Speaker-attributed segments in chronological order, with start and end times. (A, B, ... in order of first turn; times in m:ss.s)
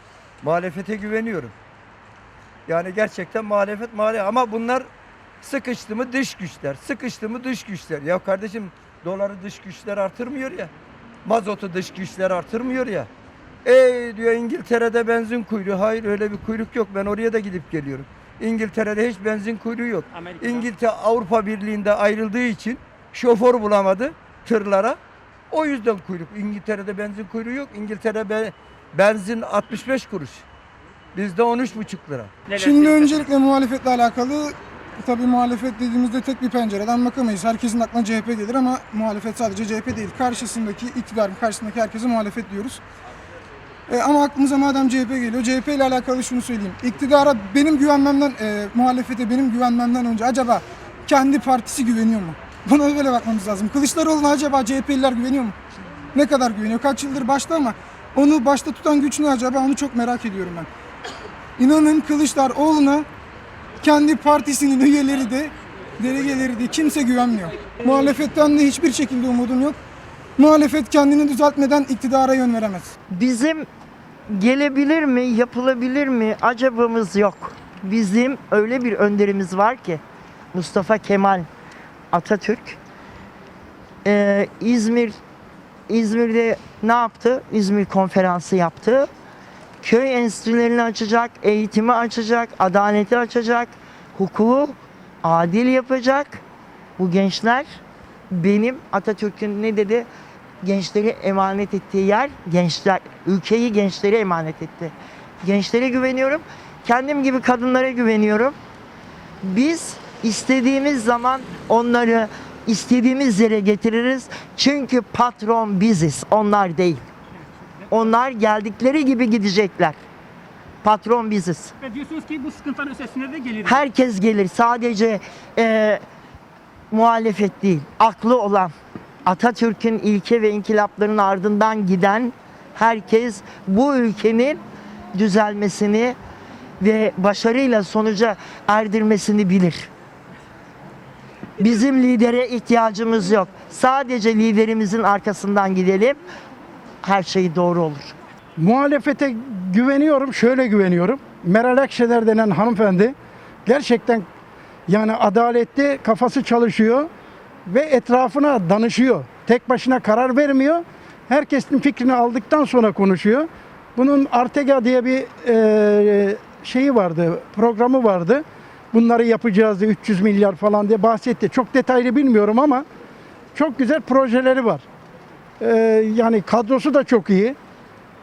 0:00.4-0:01.5 A
0:02.7-0:04.9 A
0:05.4-0:10.7 A
0:11.2-0:13.1 A
0:13.6-0:25.0 A
0:20.1-0:20.6 B
0:25.5-0:30.4 A
0:31.2-0:33.0 A
0:32.5-0:33.2 B
0:32.5-0:42.8 C
0:43.9-0:55.6 C
0:56.1-1:00.7 C
1:01.6-1:03.1 C
1:03.8-1:09.8 C
1:10.4-1:12.9 C
1:13.1-1:13.7 D
1:14.3-1:20.0 D
1:20.5-1:21.5 D
1:22.1-1:22.8 D
1:24.0-1:25.2 D
1:25.9-1:29.1 D
1:29.8-1:36.4 D
1:37.0-1:37.7 D
1:38.3-1:40.1 D
1:40.6-1:48.6 D
1:49.4-1:57.0 D
1:57.9-2:00.0 D
2:00.8-2:01.7 D
2:01.8-2:03.8 B
2:03.6-2:06.0 D
2:06.9-2:08.7 D
2:09.3-2:14.6 D
2:15.1-2:16.2 D
2:16.8-2:19.9 D
2:21.6-2:26.2 D
2:27.0-2:28.1 D
2:28.6-2:33.1 E
2:33.7-2:34.2 E
2:34.9-2:37.1 E
2:37.7-2:52.8 E
2:53.6-2:54.8 E
2:55.6-2:57.6 E